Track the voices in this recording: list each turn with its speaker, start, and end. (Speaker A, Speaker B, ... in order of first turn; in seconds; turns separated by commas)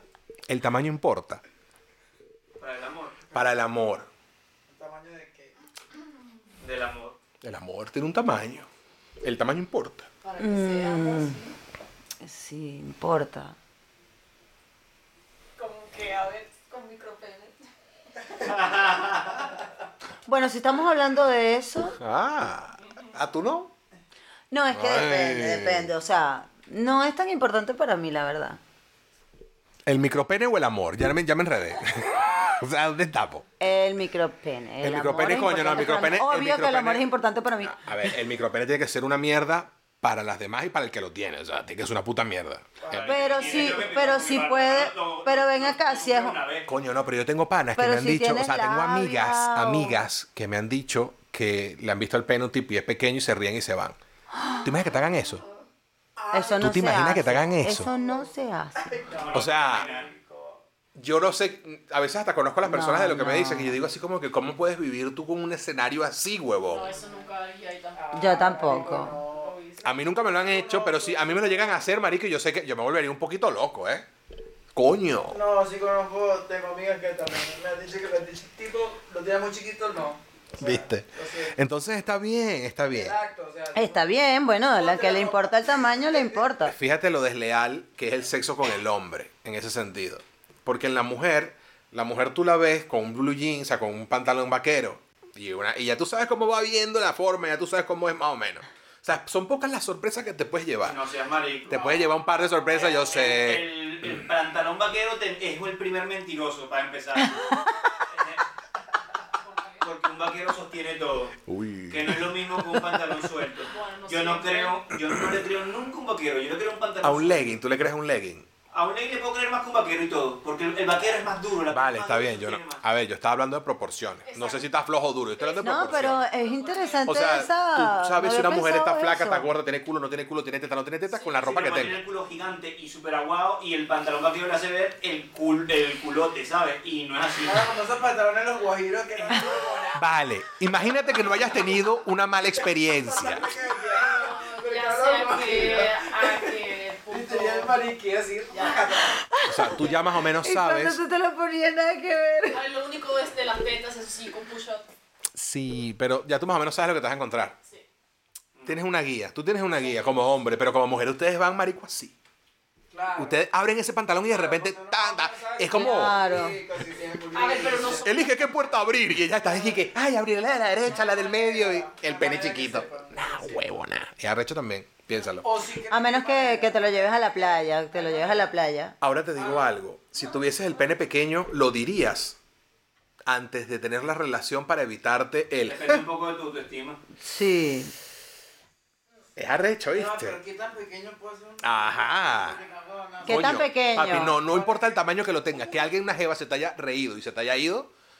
Speaker A: 0.5-1.4, Speaker B: 2.6-3.2, Speaker A: 3.3-4.1, Speaker C: 4.7-5.5, Speaker B: 6.6-7.2, Speaker A: 7.4-8.7, Speaker A: 9.2-10.1, Speaker D: 10.2-11.6, Speaker E: 10.4-11.4, Speaker E: 12.2-13.6, Speaker D: 15.6-17.6, Speaker B: 18.4-19.4, Speaker E: 20.3-22.0, Speaker A: 22.0-23.7, Speaker E: 24.5-28.6, Speaker A: 24.7-25.9, Speaker A: 29.9-33.5, Speaker E: 33.6-38.1, Speaker A: 34.8-37.0, Speaker A: 37.6-43.2, Speaker C: 42.8-43.8, Speaker B: 42.8-46.7, Speaker E: 43.1-46.4, Speaker A: 46.7-54.0, Speaker E: 47.8-50.0, Speaker E: 54.3-54.7, Speaker A: 54.6-55.5, Speaker C: 56.1-56.7, Speaker E: 56.3-59.0, Speaker A: 56.5-57.9, Speaker C: 57.5-60.6, Speaker B: 59.1-60.1, Speaker A: 59.3-59.9, Speaker A: 61.0-67.0, Speaker E: 62.6-63.8, Speaker D: 66.7-69.9, Speaker C: 66.9-67.3, Speaker C: 67.9-71.9, Speaker E: 68.1-69.2, Speaker A: 69.8-74.0, Speaker A: 74.7-75.4, Speaker C: 75.3-81.6, Speaker A: 80.6-83.2, Speaker C: 82.9-84.1, Speaker E: 83.7-86.7, Speaker C: 84.7-86.4, Speaker A: 86.6-101.0, Speaker B: 100.8-102.1, Speaker A: 101.7-104.3, Speaker B: 102.7-107.4, Speaker B: 108.0-108.4, Speaker D: 109.4-109.9, Speaker B: 109.8-117.6, Speaker A: 111.5-113.0, Speaker D: 113.7-114.8, Speaker A: 115.0-115.3, Speaker A: 117.0-118.5, Speaker B: 118.7-122.8, Speaker A: 121.7-126.2, Speaker D: 124.2-124.7, Speaker D: 125.4-127.5, Speaker E: 125.6-129.5, Speaker A: 127.0-132.0, Speaker B: 131.2-137.8, Speaker C: 137.4-140.0, Speaker B: 139.1-139.9, Speaker D: 139.5-139.7, Speaker A: 139.9-143.5, Speaker C: 142.6-149.1, Speaker D: 143.1-147.9, Speaker D: 148.5-148.9, Speaker E: 149.1-152.7, Speaker A: 149.5-151.0, Speaker D: 152.5-154.9, Speaker A: 155.3-157.6, Speaker A: 158.7-162.1, Speaker C: 162.9-163.4, Speaker A: 163.2-166.3, Speaker C: 164.3-168.6, Speaker E: 165.7-166.6, Speaker D: 167.3-168.2, Speaker A: 168.0-175.5, Speaker C: 169.4-169.8, Speaker C: 170.8-173.7, Speaker C: 175.4-178.5, Speaker E: 175.9-178.9, Speaker A: 179.0-182.4, Speaker A: 183.2-186.0, Speaker B: 185.6-187.0, Speaker E: 187.2-187.9, Speaker A: 189.4-190.4, Speaker C: 189.9-195.0, Speaker A: 191.6-192.6, Speaker E: 193.2-194.4, Speaker A: 193.3-197.9